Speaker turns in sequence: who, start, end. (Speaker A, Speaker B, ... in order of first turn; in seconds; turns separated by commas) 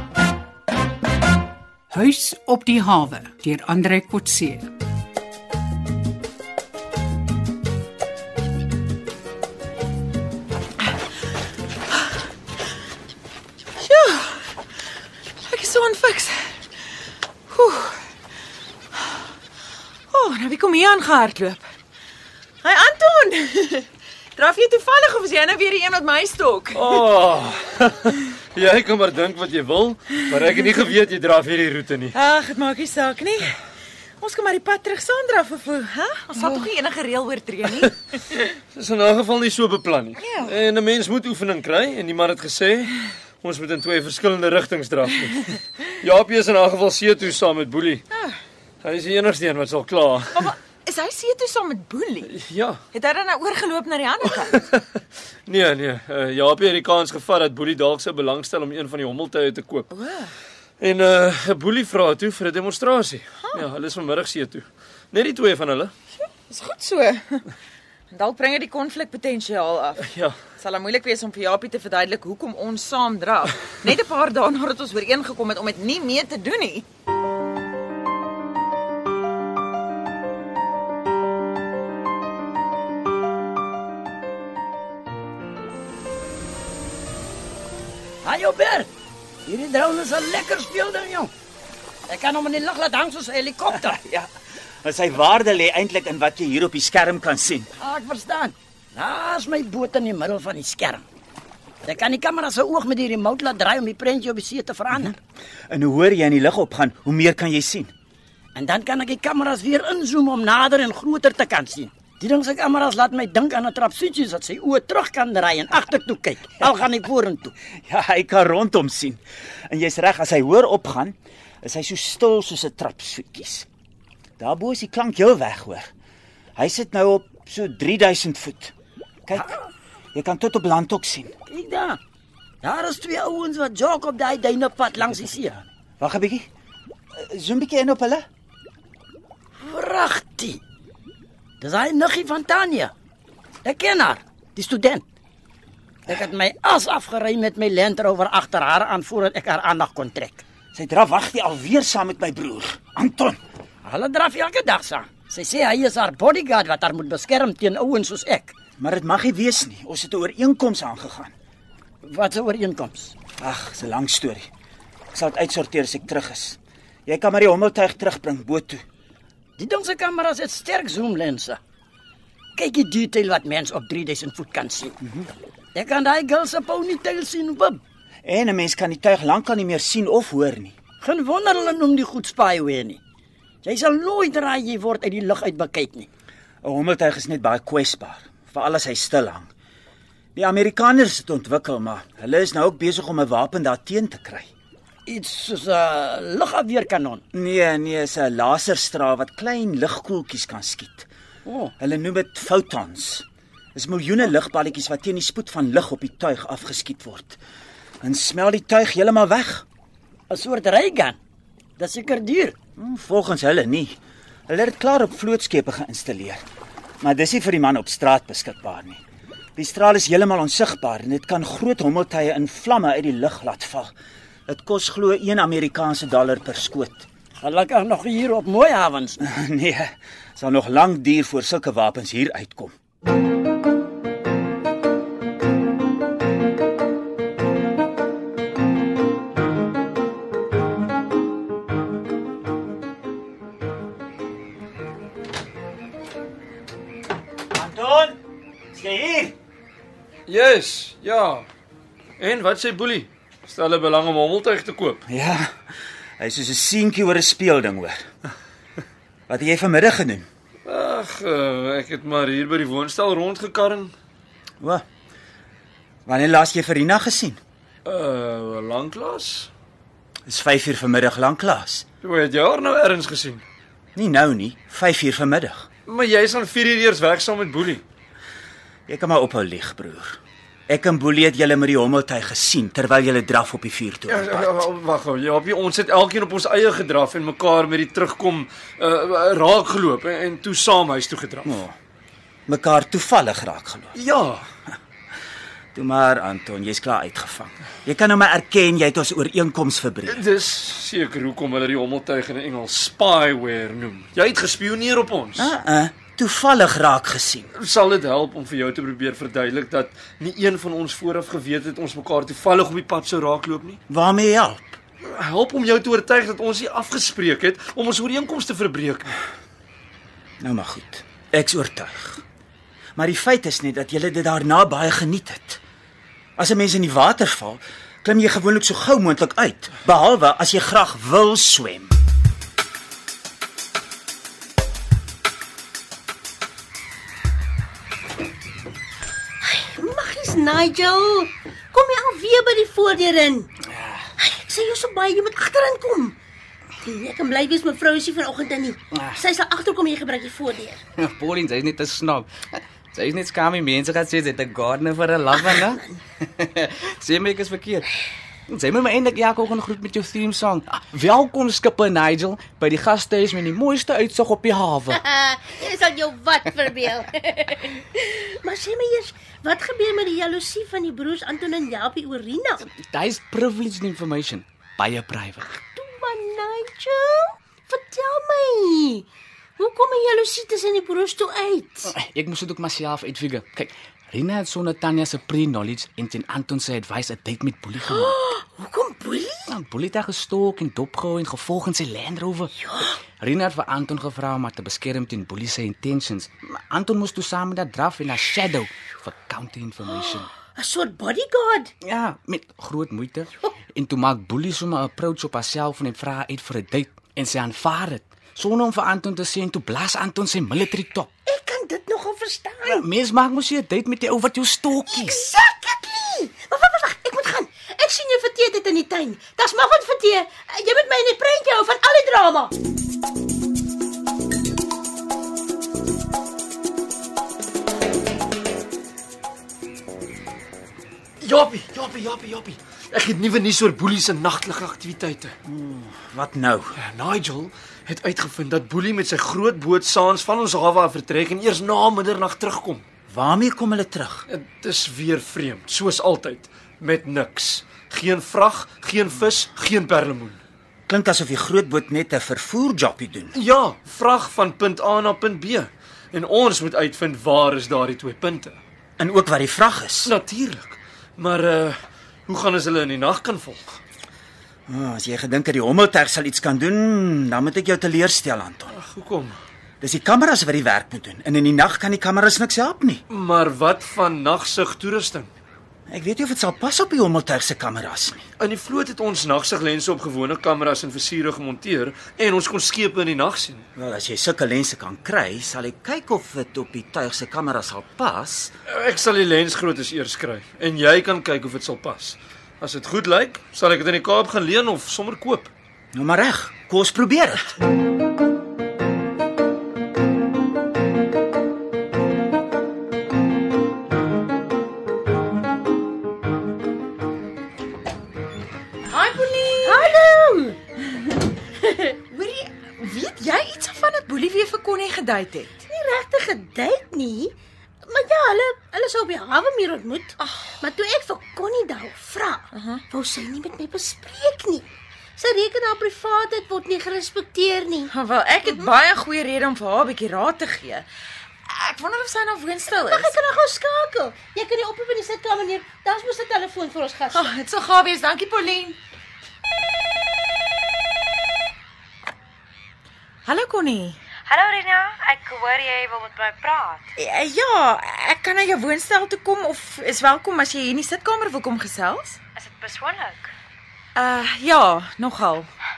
Speaker A: 1.9-4.7, Speaker B: 13.8-14.5, Speaker B: 15.5-16.6, Speaker B: 17.5-18.0, Speaker B: 18.9-19.3, Speaker B: 20.1-21.7, Speaker B: 22.6-27.0, Speaker C: 26.8-32.2, Speaker B: 32.1-33.5, Speaker B: 34.2-38.0, Speaker C: 38.4-48.1, Speaker B: 40.2-40.5, Speaker B: 48.1-48.4, Speaker C: 48.8-50.5, Speaker B: 50.3-52.3, Speaker C: 52.3-52.8, Speaker B: 52.9-54.6, Speaker C: 54.6-54.8, Speaker C: 55.5-59.9, Speaker B: 59.9-60.3, Speaker C: 60.8-65.9, Speaker B: 66.2-67.5, Speaker B: 68.1-76.9, Speaker C: 70.0-70.4, Speaker D: 88.2-88.9, Speaker D: 89.5-91.3, Speaker D: 92.1-94.0, Speaker E: 93.9-94.3, Speaker E: 94.8-97.7, Speaker D: 97.8-101.0, Speaker D: 101.9-105.1, Speaker E: 105.7-107.9, Speaker D: 108.5-117.5, Speaker E: 117.8-123.7, Speaker E: 124.4-125.9, Speaker E: 126.6-128.7, Speaker E: 129.3-129.6, Speaker E: 130.2-131.3, Speaker D: 131.5-132.0, Speaker D: 132.6-135.6, Speaker E: 135.0-136.5, Speaker E: 137.2-138.3, Speaker D: 139.6-140.6, Speaker D: 141.6-142.9, Speaker D: 143.7-145.0, Speaker D: 146.1-150.4, Speaker E: 150.7-153.4, Speaker D: 153.8-158.6, Speaker E: 158.8-161.3, Speaker D: 162.0-163.2, Speaker E: 163.4-164.5, Speaker E: 165.1-168.8, Speaker D: 169.6-171.6, Speaker D: 172.6-175.0, Speaker E: 175.0-175.3, Speaker D: 175.8-177.8, Speaker E: 178.2-180.8, Speaker D: 181.0-183.0, Speaker D: 183.6-186.1, Speaker E: 186.6-189.5, Speaker E: 190.4-194.5, Speaker D: 195.1-197.2, Speaker E: 197.3-201.1, Speaker D: 201.4-201.7, Speaker E: 201.8-207.4, Speaker E: 208.0-209.7, Speaker D: 210.3-211.2, Speaker D: 211.8-212.6, Speaker E: 212.8-216.4, Speaker E: 217.0-219.0, Speaker E: 219.6-223.9, Speaker E: 224.5-227.1, Speaker D: 227.4-229.2, Speaker E: 229.2-232.7, Speaker E: 247.5-248.2, Speaker E: 248.7-249.3, Speaker C: 250.3-251.5, Speaker C: 252.2-255.0, Speaker E: 255.1-255.5, Speaker E: 256.2-258.0, Speaker E: 259.3-260.3, Speaker C: 260.6-263.9, Speaker E: 266.1-267.4, Speaker C: 267.9-269.5, Speaker E: 270.3-271.9, Speaker C: 272.0-273.4, Speaker E: 273.9-275.7, Speaker C: 275.9-277.8, Speaker E: 278.9-284.7, Speaker C: 284.1-291.6, Speaker E: 291.4-291.7, Speaker E: 292.5-293.9, Speaker C: 293.9-294.4, Speaker E: 295.7-300.2, Speaker C: 300.1-305.5, Speaker E: 305.4-307.5, Speaker C: 307.6-313.8, Speaker E: 313.9-314.8, Speaker C: 315.0-319.1, Speaker E: 320.4-322.2, Speaker E: 323.0-325.6, Speaker E: 326.4-331.9, Speaker F: 339.4-343.5, Speaker G: 343.7-344.0, Speaker F: 344.2-346.1, Speaker F: 346.8-350.8, Speaker G: 348.9-349.2, Speaker G: 351.0-357.9, Speaker G: 358.5-365.0, Speaker F: 364.9-372.6, Speaker G: 372.6-375.6, Speaker F: 375.7-379.1, Speaker F: 379.6-381.9, Speaker G: 381.9-388.1, Speaker F: 387.8-389.4, Speaker G: 389.5-392.5, Speaker F: 392.6-392.9, Speaker G: 393.1-400.3, Speaker F: 399.9-401.7, Speaker G: 401.8-411.1, Speaker F: 411.2-412.8, Speaker G: 412.6-415.2, Speaker F: 414.9-422.5, Speaker C: 431.2-435.3, Speaker E: 435.4-436.7, Speaker C: 436.8-442.9, Speaker E: 443.1-444.3, Speaker C: 444.3-450.4, Speaker E: 450.9-453.4, Speaker C: 453.4-458.6, Speaker E: 459.0-460.1, Speaker C: 460.1-461.8, Speaker C: 462.3-463.8, Speaker E: 464.7-468.7, Speaker C: 468.7-469.4, Speaker E: 469.8-473.0, Speaker C: 473.1-475.3, Speaker E: 475.9-478.2, Speaker C: 478.4-483.6, Speaker E: 483.8-488.5, Speaker C: 488.7-495.5, Speaker E: 495.9-497.5, Speaker B: 508.9-510.0, Speaker F: 509.6-510.6, Speaker B: 511.8-515.6, Speaker F: 515.7-517.3, Speaker F: 517.9-527.9, Speaker B: 520.2-520.7, Speaker B: 522.5-522.9, Speaker B: 527.9-530.9, Speaker B: 531.5-533.2, Speaker F: 532.8-537.2, Speaker B: 537.1-538.8, Speaker B: 543.2-544.0, Speaker H: 544.3-546.9, Speaker B: 547.0-552.2, Speaker H: 552.4-553.3, Speaker B: 554.0-555.5